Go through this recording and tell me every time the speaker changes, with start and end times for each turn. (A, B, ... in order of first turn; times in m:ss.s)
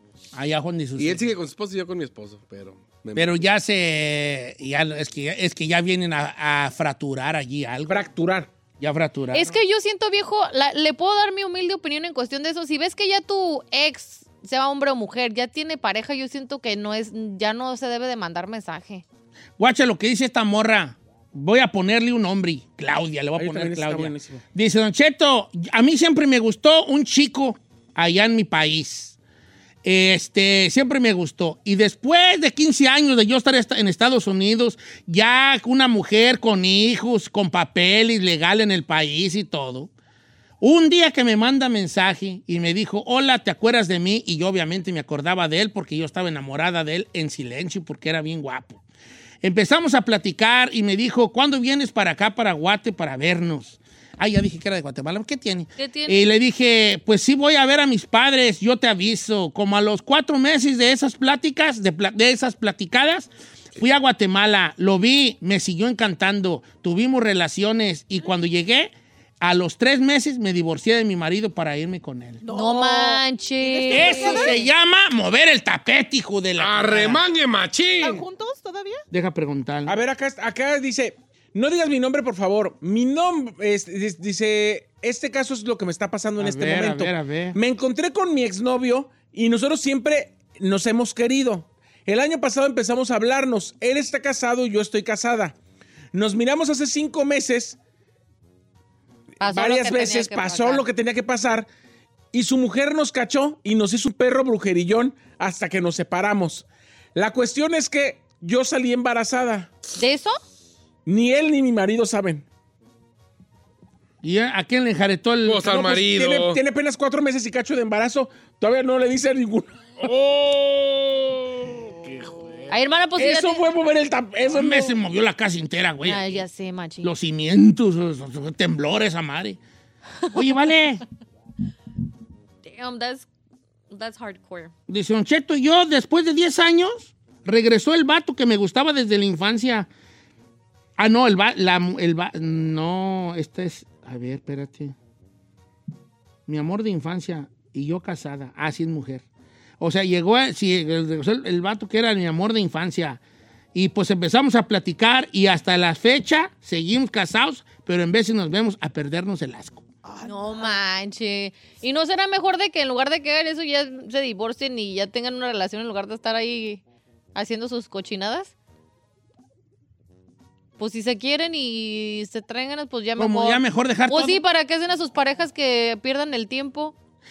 0:00.3-0:01.3 A
0:01.0-0:03.4 B
0:03.1-0:08.0 A
0:07.9-0:08.5 C
0:08.8-0:09.6 A
0:09.3-0:19.0 D
0:19.6-0:29.1 A
0:23.4-0:24.4 C
0:29.8-0:39.9 A
0:40.6-0:48.8 A
0:49.4-1:12.4 A
0:55.8-0:56.3 D
1:12.4-1:14.6 E
1:12.5-1:14.6 D
1:13.9-1:17.2 A
1:16.6-1:18.2 B
1:18.0-1:19.0 E
1:19.1-1:20.0 A
1:19.8-1:35.6 C
1:26.4-1:27.6 A
1:36.1-1:37.8 C
1:39.4-1:40.8 D
1:39.4-1:41.7 C
1:42.3-1:49.7 C
1:50.0-1:50.4 D
1:51.0-1:52.4 C
1:54.2-1:56.0 A
1:55.4-1:56.6 B
1:55.8-1:59.8 C
2:00.0-2:02.7 B
2:02.7-2:03.6 D
2:03.2-2:04.9 C
2:04.5-2:06.4 A
2:06.0-2:07.1 D
2:07.0-2:09.6 A
2:10.3-2:11.0 A
2:12.6-2:13.3 D
2:13.9-2:14.7 D
2:14.9-2:19.9 A
2:21.0-2:24.9 A
2:26.5-2:29.2 A
2:29.8-2:33.2 A
2:33.7-2:39.8 A
2:40.0-2:40.8 E
2:40.2-2:46.8 D
2:47.3-2:48.5 D
2:50.8-2:56.9 D
2:53.2-2:54.4 A